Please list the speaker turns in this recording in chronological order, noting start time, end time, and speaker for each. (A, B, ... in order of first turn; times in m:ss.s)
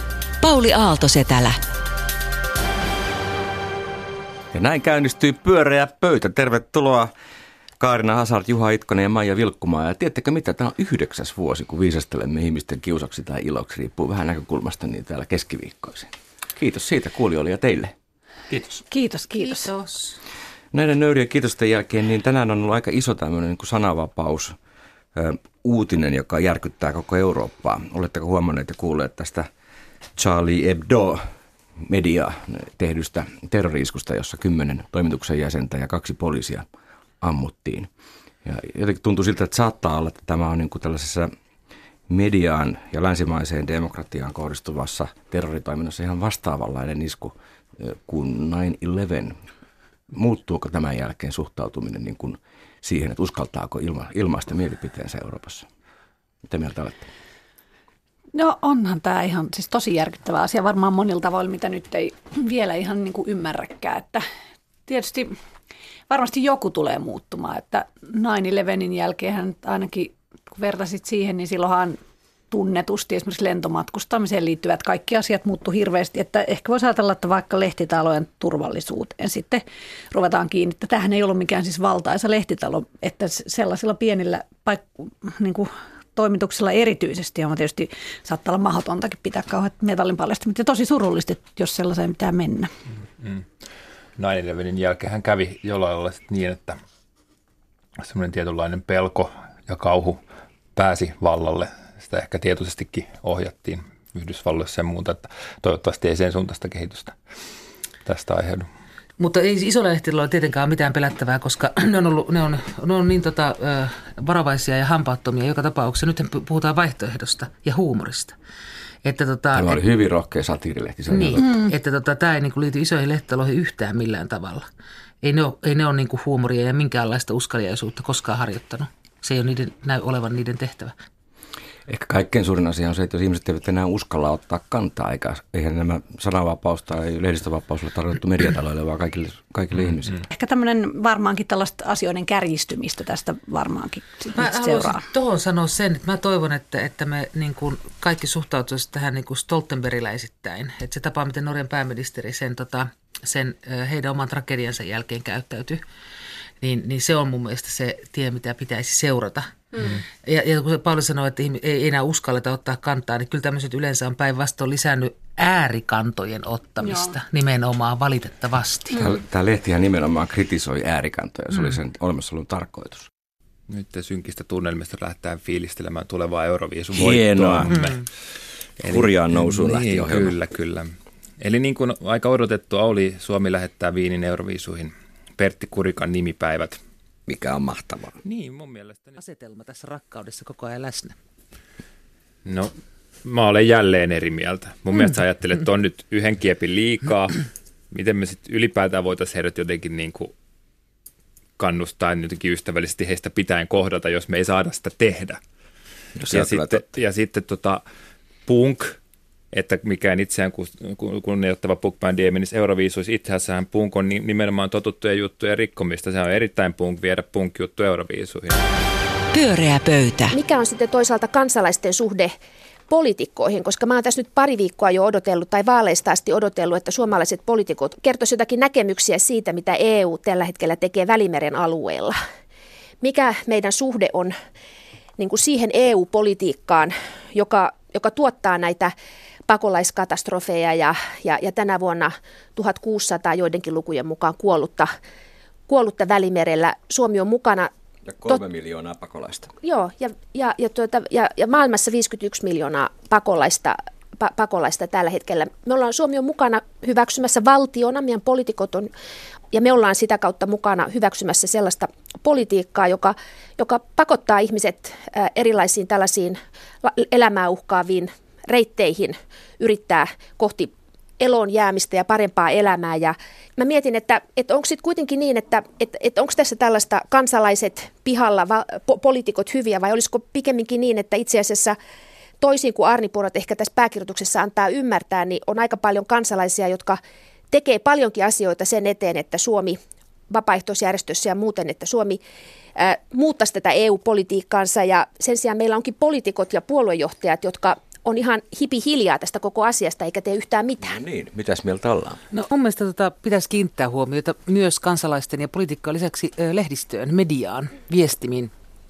0:00.4-0:01.6 A
0:04.5-0:07.1 B
0:07.8-0:17.9 B
0:18.9-0:19.7 C
0:19.4-0:20.2 D
0:20.7-0:24.5 B
0:25.1-0:29.5 B
0:30.2-0:31.3 B
0:31.8-0:36.6 B
0:37.2-0:37.9 B
0:38.4-0:41.3 B
0:42.1-0:49.3 B
0:50.1-0:55.6 B
0:56.5-0:57.1 B
0:58.3-1:04.2 C
1:04.9-1:05.4 C
1:06.1-1:12.0 C
1:12.5-1:32.7 C
1:33.2-1:33.4 E
1:34.2-1:36.8 E
1:38.0-1:40.2 E
1:40.7-1:47.2 E
1:48.0-1:48.7 E
1:49.2-1:58.3 D
1:59.0-1:59.8 D
1:59.5-2:01.5 B
2:01.1-2:04.6 D
2:01.4-2:01.7 C
2:05.2-2:10.9 D
2:11.9-2:20.2 B
2:20.3-2:25.1 C
2:24.3-2:35.8 D
2:36.6-2:39.7 D
2:40.2-2:49.0 D
2:46.8-2:47.1 C
2:49.0-2:53.1 B
2:53.7-2:58.0 E
2:56.9-2:57.8 B
2:57.7-2:58.0 D
2:58.8-3:06.8 E
2:58.8-3:00.3 B
3:07.3-3:08.2 B
3:08.2-3:09.2 E
3:09.2-3:11.1 D
3:12.4-3:12.7 E
3:13.2-3:20.3 E
3:21.6-3:25.4 E
3:26.2-3:26.9 B
3:26.3-3:27.8 E
3:28.4-3:29.0 E
3:29.5-3:38.6 E
3:39.3-3:40.4 A
3:40.3-3:42.3 F
3:42.9-3:52.1 F
3:53.0-3:54.3 F
3:55.2-3:58.9 F
3:59.5-4:04.9 F
4:05.7-4:07.7 F
4:08.0-4:09.5 B
4:09.6-4:18.9 F
4:19.5-4:41.8 F
4:42.4-4:47.0 F
4:47.5-4:49.8 F
4:50.3-4:52.2 F
4:52.8-5:01.0 F
5:00.8-5:02.2 B
5:02.3-5:08.5 D